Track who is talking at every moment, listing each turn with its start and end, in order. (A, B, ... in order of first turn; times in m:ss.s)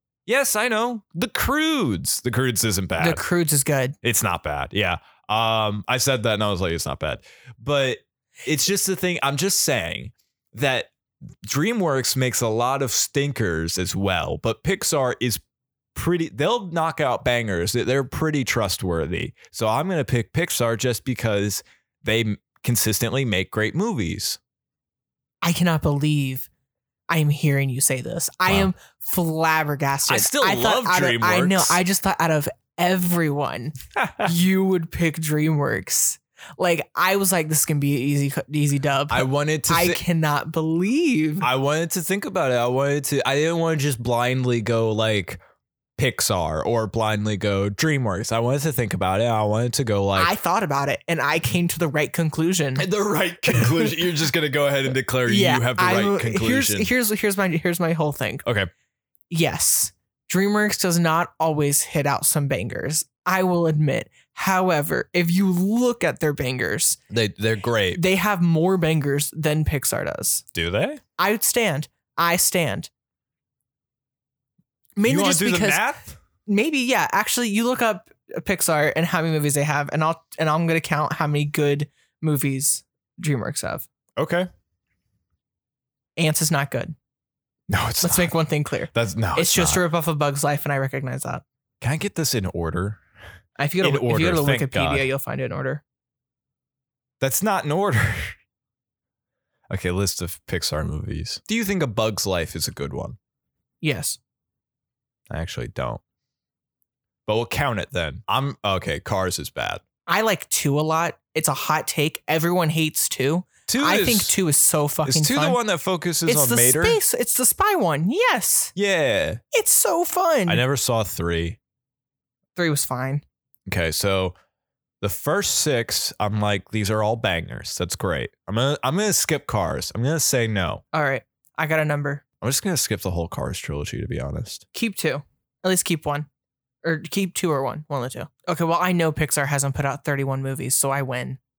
0:00.3-0:03.2 A
0:03.0-0:04.0 B
0:04.0-0:10.9 A
0:11.4-0:15.4 A
0:15.9-0:24.4 A
0:25.4-0:26.5 B
0:27.1-0:41.5 B
0:30.1-0:31.8 A
0:34.0-0:34.3 A
0:39.1-0:40.0 A
0:41.4-0:45.4 A
0:46.0-0:50.3 A
0:50.1-0:52.9 B
0:52.8-0:56.9 A
0:53.5-0:53.9 B
0:55.2-0:58.4 B
0:58.4-0:58.7 A
0:59.3-1:07.0 B
1:07.1-1:08.0 A
1:07.9-1:10.4 B
1:10.5-1:11.0 A
1:11.2-1:12.9 B
1:15.0-1:15.8 B
1:15.0-1:16.2 A
1:16.4-1:23.9 B
1:24.2-1:24.5 A
1:26.2-1:26.9 B
1:27.7-1:28.3 A
1:28.0-1:31.4 B
1:28.9-1:29.8 A
1:31.8-1:33.0 A
1:33.6-1:35.8 B
1:33.8-1:35.1 A
1:37.2-1:38.4 A
1:39.7-1:43.2 A
1:43.8-1:44.2 B
1:45.3-1:46.0 A
1:47.2-1:49.8 A
1:50.1-1:55.6 B
1:53.7-1:54.4 A
1:55.0-1:57.0 A
1:56.3-1:58.7 B
1:58.7-1:59.4 A
1:59.5-2:00.6 B
2:00.5-2:01.6 A
2:02.6-2:03.2 B
2:03.6-2:04.3 A
2:05.0-2:10.8 A
2:10.9-2:12.2 B
2:12.4-2:14.6 A
2:14.7-2:16.3 B
2:16.8-2:21.4 B